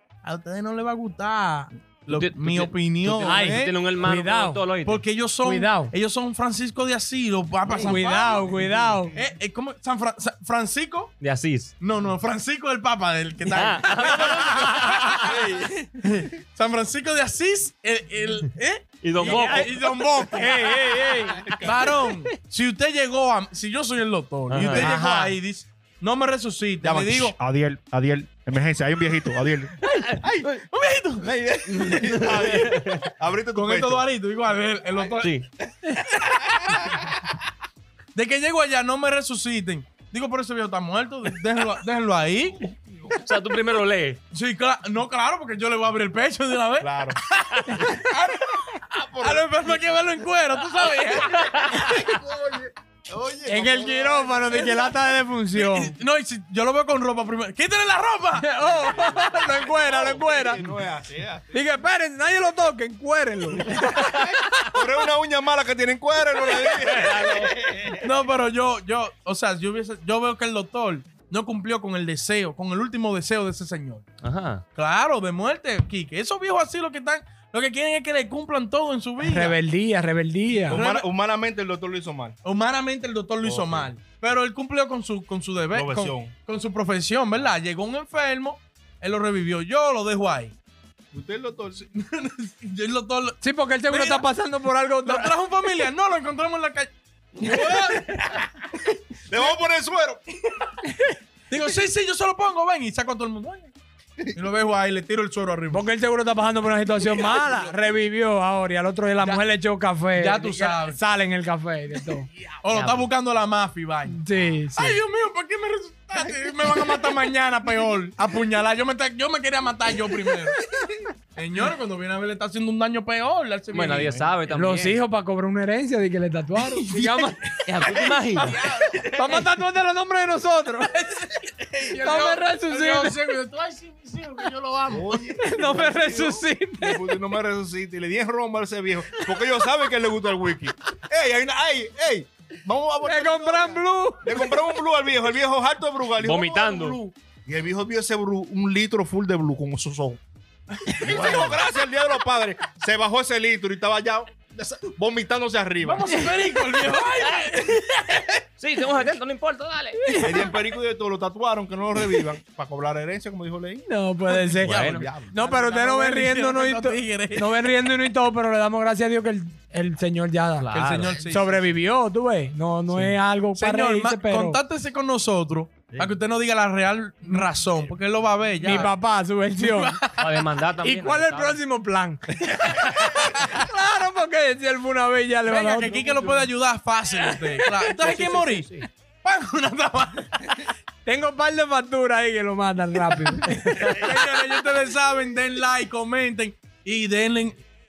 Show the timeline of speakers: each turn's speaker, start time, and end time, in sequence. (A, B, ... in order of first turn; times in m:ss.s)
0:00.2-0:03.8 A
0:02.1-0:05.0 B
0:03.2-0:04.6 C
0:04.8-0:08.5 A
0:05.4-0:05.9 C
0:07.8-0:09.2 C
0:09.1-0:11.1 A
0:11.2-0:11.7 B
0:11.8-0:20.9 A
0:13.5-0:15.3 B
0:15.3-0:15.7 D
0:19.0-0:19.8 B
0:19.2-0:22.1 C
0:21.0-0:21.9 D
0:21.6-0:27.4 A
0:24.5-0:25.0 B
0:24.7-0:25.4 C
0:26.8-0:30.5 D
0:30.0-0:32.5 A
0:31.2-0:34.1 D
0:31.7-0:33.1 B
0:33.5-0:37.0 A
0:35.2-0:35.5 B
0:38.2-0:42.7 A
0:42.6-0:43.2 D
0:43.2-0:44.2 B
0:44.3-0:51.7 A
0:46.8-0:47.2 D
0:48.9-0:49.9 D
0:51.4-0:51.9 B
0:51.6-0:54.7 D
0:53.5-0:56.0 C
0:54.5-0:54.9 A
0:55.5-0:58.5 A
0:58.4-1:00.6 C
0:59.1-1:01.6 D
1:01.5-1:04.7 C
1:03.6-1:04.2 D
1:03.8-1:04.2 B
1:04.7-1:08.1 D
1:06.5-1:07.6 B
1:08.0-1:14.1 A
1:14.2-1:14.6 B
1:14.8-1:19.6 A
1:19.2-1:20.8 C
1:20.7-1:21.1 A
1:20.7-1:22.4 D
1:22.4-1:30.5 A
1:23.4-1:23.9 D
1:25.7-1:26.3 D
1:31.1-1:31.9 D
1:31.9-1:34.2 A
1:33.4-1:35.3 C
1:35.0-1:38.7 A
1:39.3-1:40.2 D
1:40.4-1:40.7 A
1:40.8-1:41.2 C
1:41.5-1:43.7 A
1:44.3-1:45.9 A
1:45.7-1:52.3 C
1:47.1-1:47.7 A
1:50.2-1:51.0 A
1:52.6-1:54.2 A
1:52.7-1:53.1 B
1:54.1-1:55.0 C
1:54.7-2:00.6 A
2:01.4-2:04.2 A
2:03.7-2:05.0 B
2:04.5-2:07.6 C
2:06.6-2:07.3 A
2:07.7-2:08.7 B
2:07.8-2:09.5 A
2:09.1-2:10.9 C
2:10.9-2:15.4 A
2:11.9-2:13.3 C
2:14.9-2:30.2 D
2:15.4-2:17.2 C
2:23.0-2:24.8 C
2:26.2-2:27.0 B
2:30.8-2:31.7 A
2:30.9-2:36.2 D
2:31.0-2:31.5 B
2:35.8-2:38.4 A
2:38.6-2:40.4 B
2:40.1-2:40.5 C
2:40.2-2:43.9 D
2:43.9-2:54.6 C
2:44.3-2:47.6 A
2:44.6-2:45.1 B
2:44.7-2:45.4 D
2:50.6-2:51.2 B
2:50.7-2:51.7 A
2:53.5-2:58.9 A
2:58.6-3:00.0 C
2:59.5-3:00.4 A
3:00.2-3:01.6 B
3:00.8-3:06.5 C
3:05.4-3:08.7 A
3:08.0-3:08.9 B
3:09.2-3:10.6 A
3:11.0-3:14.2 C
3:13.7-3:14.1 B
3:13.9-3:17.6 A